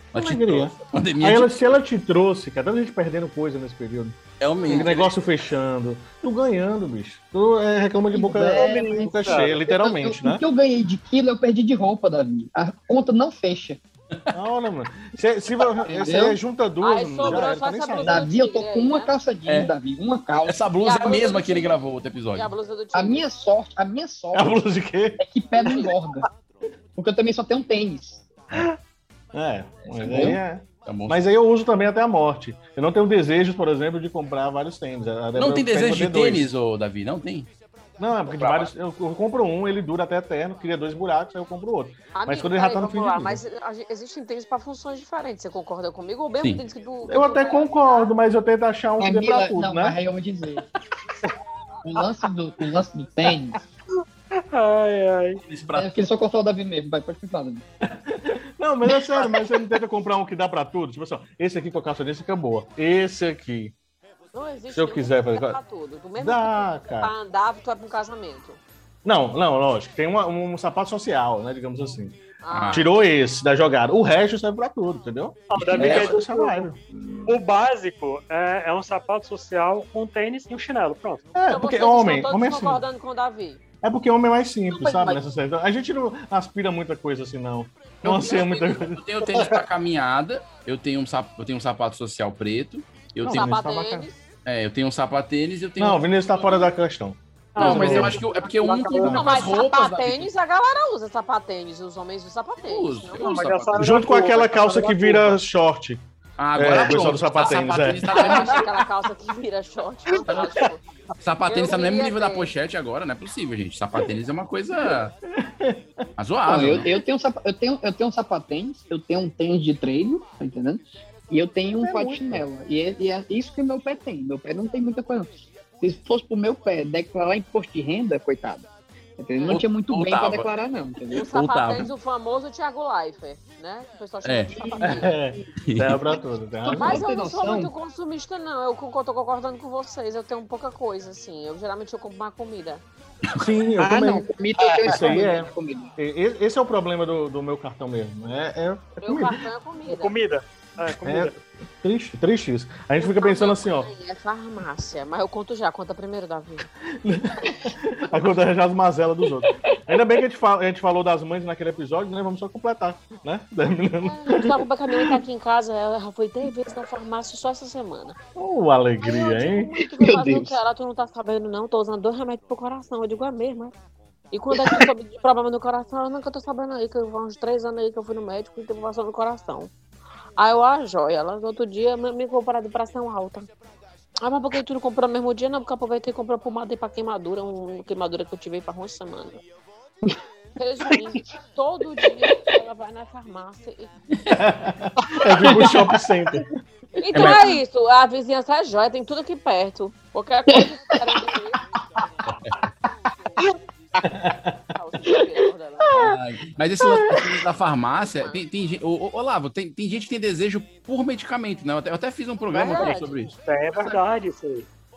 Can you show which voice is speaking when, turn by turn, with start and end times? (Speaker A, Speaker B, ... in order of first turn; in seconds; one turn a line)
Speaker A: 0.1-1.6
Speaker B: 0.1-10.4
Speaker A: 4.4-5.1
Speaker C: 8.1-13.8
Speaker D: 8.6-9.6
Speaker B: 14.3-18.2
Speaker C: 15.8-16.4
Speaker E: 16.8-19.1
Speaker C: 18.0-20.6
Speaker A: 19.5-19.7
Speaker A: 20.4-22.5
Speaker E: 20.8-23.2
Speaker C: 22.9-24.6
Speaker B: 24.3-25.2
Speaker C: 25.2-26.2
Speaker C: 26.9-28.2
Speaker B: 29.3-36.6
Speaker A: 30.0-31.2
Speaker A: 35.4-37.5
Speaker B: 38.0-43.4
Speaker A: 38.2-38.7
Speaker E: 42.1-48.1
Speaker B: 47.1-50.0
Speaker C: 49.0-50.6
Speaker C: 51.8-53.6
Speaker D: 54.5-55.4
Speaker A: 55.4-55.9
Speaker C: 55.7-57.6
Speaker B: 57.8-63.7
Speaker E: 64.3-68.6
Speaker B: 64.7-65.6
Speaker B: 66.2-67.1
Speaker B: 69.0-72.2
Speaker E: 72.4-73.0
Speaker A: 72.5-72.9
Speaker B: 72.7-76.8
Speaker D: 75.5-76.7
Speaker A: 75.7-76.2
Speaker D: 77.2-81.3
Speaker B: 81.3-82.8
Speaker E: 81.5-83.6
Speaker B: 83.8-89.0
Speaker C: 84.8-85.2
Speaker A: 88.0-93.5
Speaker D: 89.3-89.6
Speaker B: 93.2-94.1
Speaker E: 93.3-94.2
Speaker A: 94.4-96.7
Speaker B: 95.8-98.2
Speaker D: 97.5-99.3
Speaker A: 97.6-100.3
Speaker E: 99.1-103.4
Speaker A: 102.6-103.9
Speaker D: 103.2-105.4
Speaker B: 103.8-106.0
Speaker A: 106.4-108.7
Speaker B: 106.6-108.6
Speaker E: 108.1-110.8
Speaker A: 110.3-110.6
Speaker A: 111.2-115.1
Speaker E: 111.5-112.5
Speaker B: 114.8-116.0
Speaker A: 116.2-116.9
Speaker C: 116.4-131.2
Speaker B: 121.8-122.4
Speaker E: 129.3-129.6
Speaker A: 129.5-130.5
Speaker A: 131.1-131.9
Speaker E: 131.1-135.1
Speaker A: 134.2-134.5
Speaker C: 134.5-135.1
Speaker B: 134.8-137.1
Speaker A: 135.7-136.0
Speaker C: 136.6-137.7
Speaker E: 136.8-142.8
Speaker B: 143.4-144.3
Speaker C: 143.8-145.9
Speaker B: 144.9-149.4
Speaker E: 149.0-150.1
Speaker D: 149.8-151.3
Speaker B: 151.0-153.9
Speaker E: 153.0-156.7
Speaker B: 157.0-165.1
Speaker E: 164.0-168.2
Speaker B: 168.4-169.7
Speaker E: 169.0-173.7
Speaker C: 170.0-170.6
Speaker E: 174.3-179.7
Speaker C: 174.6-174.8
Speaker E: 180.4-183.5
Speaker E: 184.2-189.4
Speaker E: 190.6-193.9
Speaker B: 194.3-196.4
Speaker E: 197.0-201.6
Speaker A: 197.1-197.4
Speaker C: 200.5-201.2
Speaker B: 204.1-204.6
Speaker E: 204.7-205.9
Speaker A: 205.9-213.9
Speaker E: 208.0-208.4
Speaker E: 212.5-213.2
Speaker D: 213.4-214.7